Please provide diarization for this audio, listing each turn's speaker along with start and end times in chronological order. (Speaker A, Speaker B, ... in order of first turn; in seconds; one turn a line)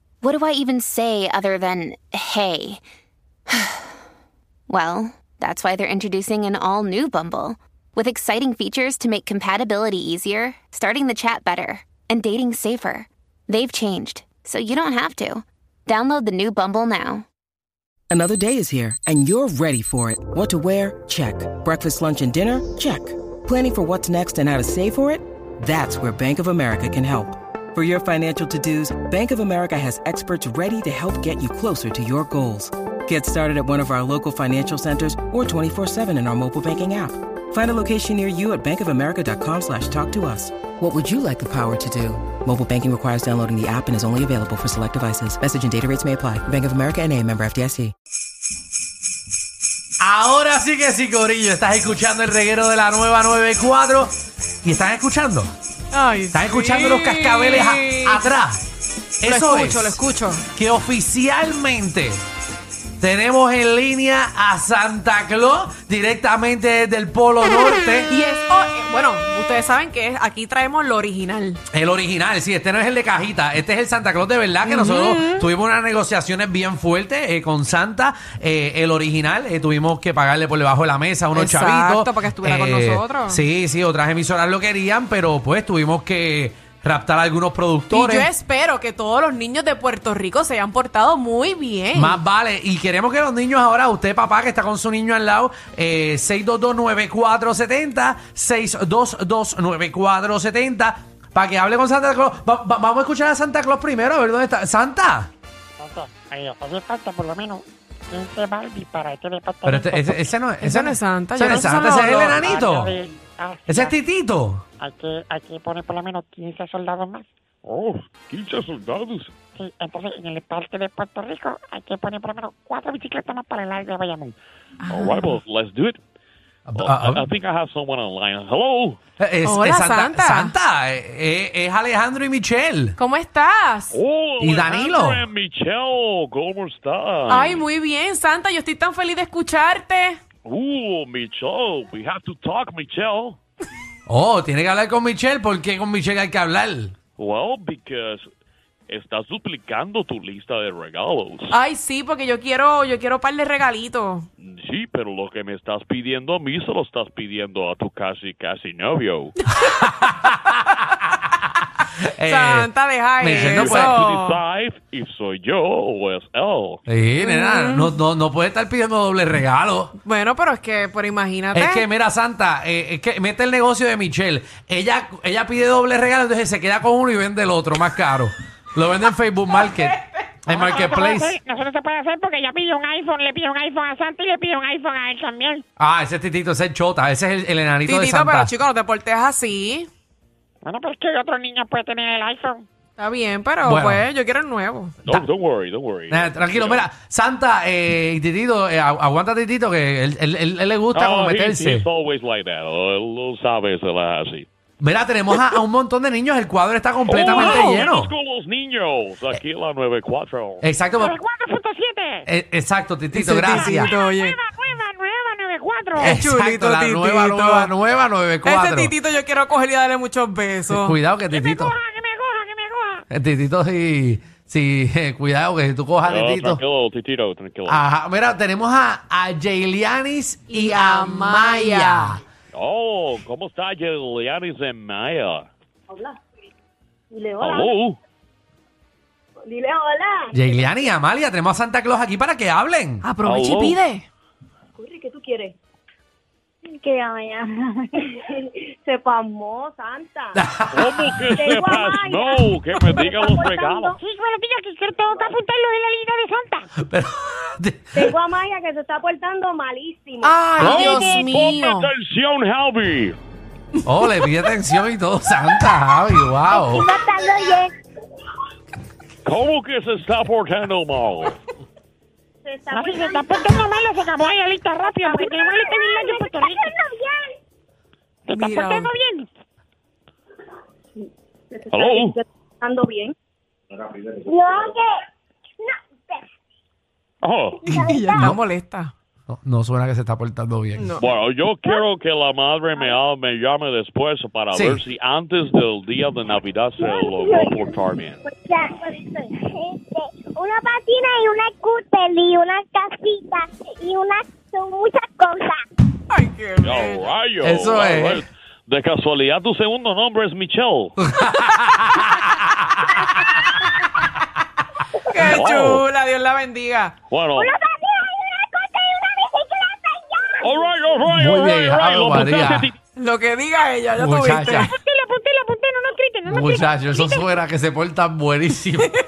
Speaker A: 0.2-2.8
Speaker A: 3.5-3.9
Speaker A: 4.7-17.2
Speaker B: 18.1-47.9
Speaker C: 50.0-55.5
Speaker D: 55.9-58.3
Speaker C: 56.3-58.6
Speaker C: 59.2-60.0
Speaker D: 59.2-60.4
Speaker C: 60.5-62.2
Speaker C: 63.0-68.1
Speaker D: 68.1-71.6
Speaker C: 71.7-88.3
Speaker D: 74.6-75.5
Speaker D: 81.3-83.4
Speaker D: 87.9-92.2
Speaker C: 91.9-105.3
Speaker E: 105.8-110.3
Speaker C: 109.6-112.9
Speaker D: 110.6-112.5
Speaker E: 111.8-113.9
Speaker C: 113.7-114.6
Speaker E: 114.8-117.2
Speaker F: 117.7-119.3
Speaker E: 119.5-124.3
Speaker D: 124.8-125.4
Speaker F: 124.9-126.0
Speaker C: 126.7-127.2
Speaker F: 126.7-129.0
Speaker C: 129.2-133.0
Speaker D: 129.4-130.5
Speaker D: 133.0-133.9
Speaker F: 133.9-137.6
Speaker C: 134.4-135.3
Speaker D: 137.3-140.2
Speaker F: 140.4-143.4
Speaker C: 144.1-146.9
Speaker F: 147.2-148.3
Speaker F: 148.9-151.5
Speaker D: 151.5-154.3
Speaker F: 154.4-159.3
Speaker C: 159.6-160.7
Speaker D: 159.6-160.3
Speaker C: 162.1-164.0
Speaker D: 162.2-164.4
Speaker F: 163.3-166.8
Speaker C: 166.8-169.9
Speaker D: 167.2-167.9
Speaker D: 170.0-171.8
Speaker C: 171.5-181.4
Speaker D: 179.5-180.3
Speaker E: 180.5-185.6
Speaker C: 185.8-188.5
Speaker D: 187.8-189.9
Speaker E: 190.6-192.6
Speaker D: 193.0-194.9
Speaker C: 193.6-194.0
Speaker F: 195.0-196.8
Speaker C: 196.1-201.9
Speaker F: 200.9-204.5
Speaker C: 204.8-208.1
Speaker F: 207.1-210.6
Speaker D: 207.5-207.8
Speaker C: 210.6-211.1
Speaker E: 210.9-212.3
Speaker C: 212.3-213.9
Speaker D: 213.1-214.4
Speaker E: 213.8-216.1
Speaker D: 216.0-217.7
Speaker C: 216.0-218.9
Speaker D: 218.4-221.0
Speaker C: 220.7-221.7
Speaker E: 221.3-223.0
Speaker C: 223.1-226.6
Speaker F: 226.0-227.8
Speaker C: 227.7-232.2
Speaker D: 230.5-232.2
Speaker F: 232.5-235.5
Speaker G: 235.9-236.2
Speaker G: 237.1-237.7
Speaker F: 237.4-238.0
Speaker G: 239.4-240.6
Speaker C: 240.3-243.1
Speaker D: 243.0-244.0
Speaker F: 243.2-243.8
Speaker G: 244.8-245.6
Speaker H: 246.7-247.5
Speaker G: 248.8-250.3
Speaker C: 250.3-251.3
Speaker F: 250.7-254.0
Speaker G: 251.3-253.4
Speaker H: 253.3-253.9
Speaker E: 253.9-256.7
Speaker C: 256.8-258.1
Speaker G: 257.9-261.0
Speaker D: 260.2-261.9
Speaker F: 260.6-263.2
Speaker C: 263.8-266.9
Speaker H: 266.5-267.7
Speaker F: 269.2-271.4
Speaker G: 272.4-273.6
Speaker E: 272.7-276.7
Speaker G: 274.9-275.4
Speaker H: 275.2-277.3
Speaker D: 278.3-278.9
Speaker E: 278.3-279.3
Speaker G: 281.5-283.1
Speaker F: 281.7-282.2
Speaker G: 283.8-284.2
Speaker H: 284.2-285.0
Speaker H: 285.6-286.3
Speaker F: 287.2-287.8
Speaker H: 287.7-288.3
Speaker D: 287.8-288.9
Speaker C: 288.1-288.4
Speaker C: 289.3-290.9
Speaker D: 290.8-291.1
Speaker F: 291.0-298.2
Speaker C: 294.5-294.8
Speaker H: 296.9-297.6
Speaker H: 298.2-305.6
Speaker D: 306.1-307.1
Speaker F: 306.6-311.0
Speaker C: 307.4-308.2
Speaker C: 311.0-313.3
Speaker D: 315.1-316.9
Speaker F: 315.1-315.9
Speaker F: 317.1-317.5
Speaker H: 317.4-320.7
Speaker F: 320.4-322.8
Speaker C: 321.1-322.7
Speaker D: 322.9-324.7
Speaker C: 323.9-324.7
Speaker E: 324.6-327.3
Speaker C: 326.3-328.9